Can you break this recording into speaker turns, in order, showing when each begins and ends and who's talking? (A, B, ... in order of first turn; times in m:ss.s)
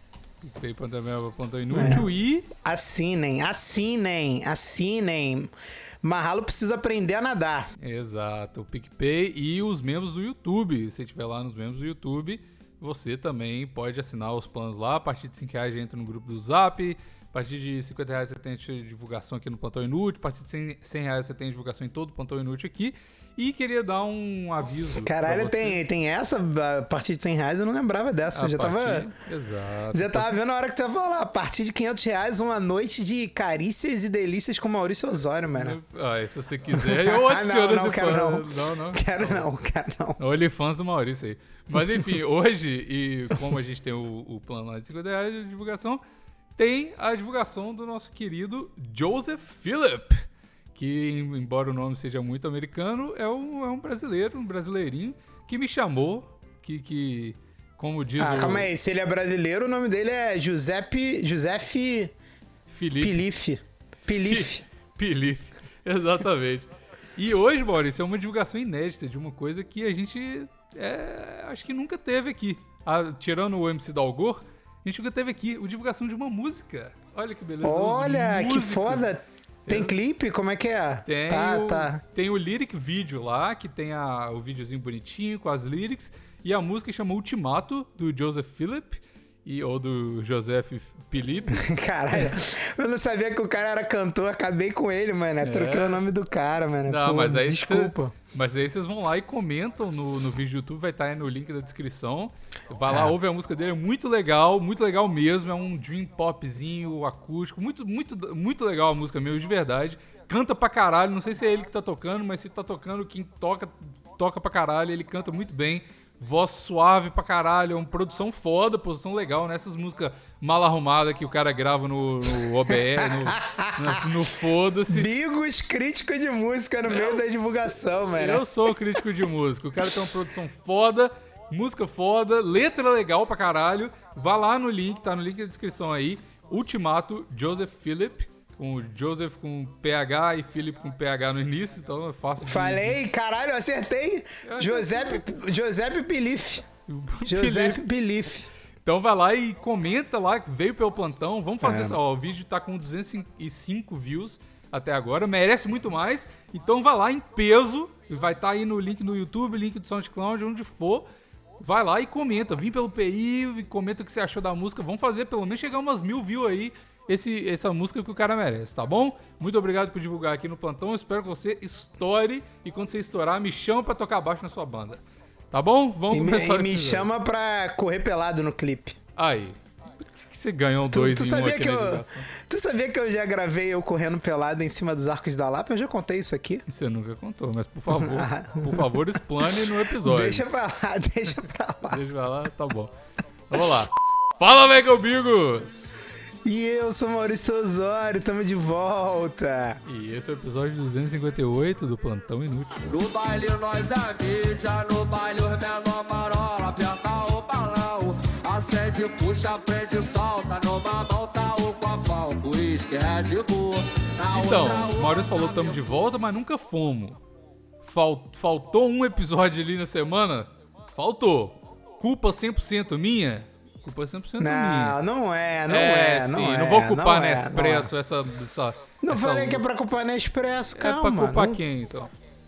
0:00.4-0:02.4 A
0:01.7-0:07.7 B
0:07.8-0:25.8 A
0:25.0-0:29.1 B
0:28.3-0:30.3 A
0:29.9-0:35.8 B
0:35.5-0:39.4 A
0:36.7-0:40.2 B
0:40.2-0:46.0 A
0:46.6-0:58.7 A
0:58.2-1:02.1 B
1:02.7-1:03.2 A
1:03.0-1:04.6 B
1:04.1-1:19.1 A
1:17.6-1:22.0 B
1:19.7-1:19.9 A
1:21.0-1:31.7 A
1:31.5-1:38.1 B
1:35.4-1:36.0 A
1:36.8-2:05.1 A
1:42.9-1:43.1 B
2:02.7-2:04.1 B
2:04.9-2:08.4 B
2:06.8-2:07.6 A
2:08.1-2:23.0 A
2:22.4-2:26.7 B
2:24.4-2:25.3 A
2:26.9-2:27.8 A
2:27.2-2:28.5 B
2:28.8-2:41.0 A
2:31.6-2:32.0 B
2:41.6-2:57.1 A
2:56.1-2:59.0 B
2:59.2-3:02.3 A
3:00.9-3:06.6 B
3:06.7-3:10.5 A
3:07.9-3:09.1 B
3:10.0-3:12.0 B
3:11.9-3:12.9 A
3:13.5-3:16.1 A
3:16.4-3:19.8 B
3:19.8-3:22.8 A
3:22.9-3:35.8 C
3:34.3-3:37.2 A
3:37.8-3:45.0 A
3:44.4-3:47.9 B
3:45.7-3:49.6 A
3:49.0-3:51.6 B
3:50.8-3:52.1 A